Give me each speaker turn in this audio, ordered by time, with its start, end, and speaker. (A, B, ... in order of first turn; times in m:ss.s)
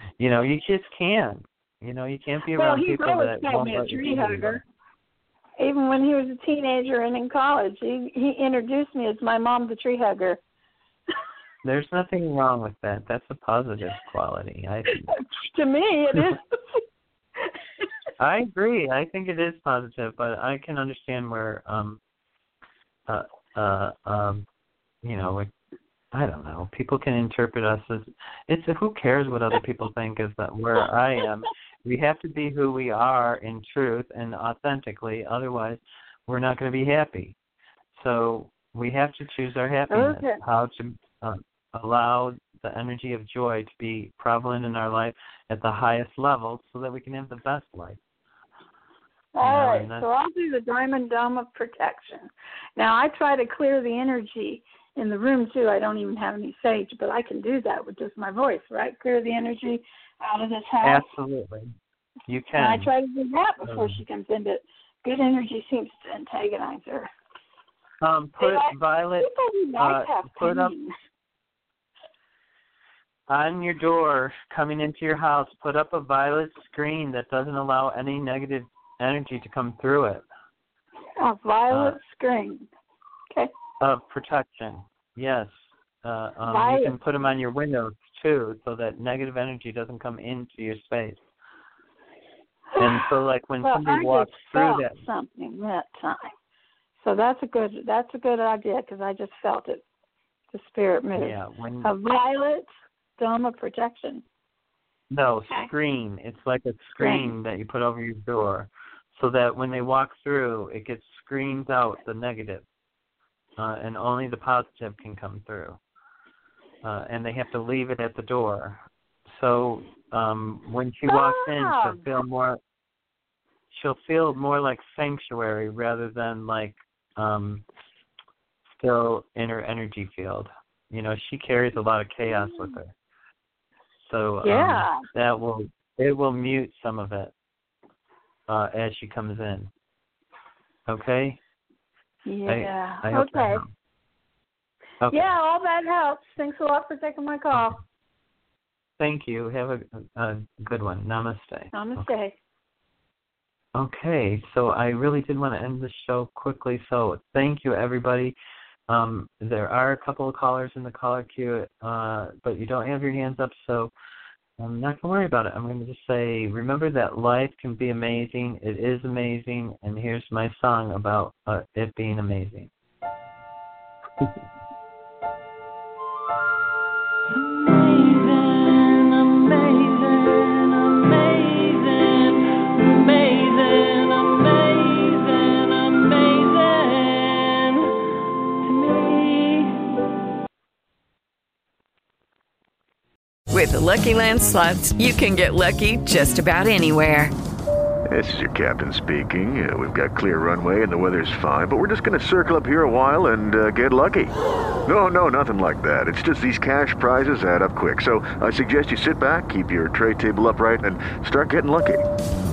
0:00.2-0:04.6 A
0:02.5-0:04.6 B
0:05.6-0:10.4 B
0:11.6-0:15.1 A
0:15.0-0:16.8 B
0:18.2-0:22.0 A
0:23.1-0:24.4 A
0:25.0-0:25.5 A
0:26.1-0:37.3 A
0:38.0-0:48.0 A
0:39.9-0:40.4 B
0:49.3-1:01.1 B
0:49.4-0:50.1 A
1:00.8-1:01.7 A
1:02.3-1:02.9 A
1:02.5-1:07.1 B
1:03.6-1:04.0 A
1:08.0-1:10.8 A
1:08.4-1:10.9 B
1:13.3-1:20.2 A
1:21.2-1:22.6 B
1:21.7-1:22.0 A
1:23.8-1:31.2 A
1:26.5-1:26.9 B
1:32.7-1:33.1 B
1:32.8-1:35.0 A
1:33.6-1:36.4 B
1:37.0-1:39.8 B
1:40.5-1:44.2 B
1:41.2-1:41.9 A
1:45.1-1:52.6 A
1:47.0-1:47.3 B
1:53.6-1:55.8 A
1:56.8-2:02.6 A
2:01.0-2:02.0 B
2:03.7-2:07.6 A
2:08.8-2:12.9 A
2:14.0-2:17.3 A
2:14.4-2:15.0 B
2:18.5-2:19.7 A
2:20.9-2:21.4 A
2:22.2-2:23.6 B
2:22.4-2:23.7 A
2:25.0-2:25.3 A
2:25.1-2:27.8 B
2:29.0-2:32.1 A
2:31.7-2:32.3 B
2:33.7-2:38.3 A
2:38.9-2:43.9 A
2:44.6-2:52.7 A
2:57.4-3:07.8 A
3:08.6-3:09.7 A
3:13.5-3:17.3 C
3:18.1-3:24.3 D
3:24.8-3:32.0 D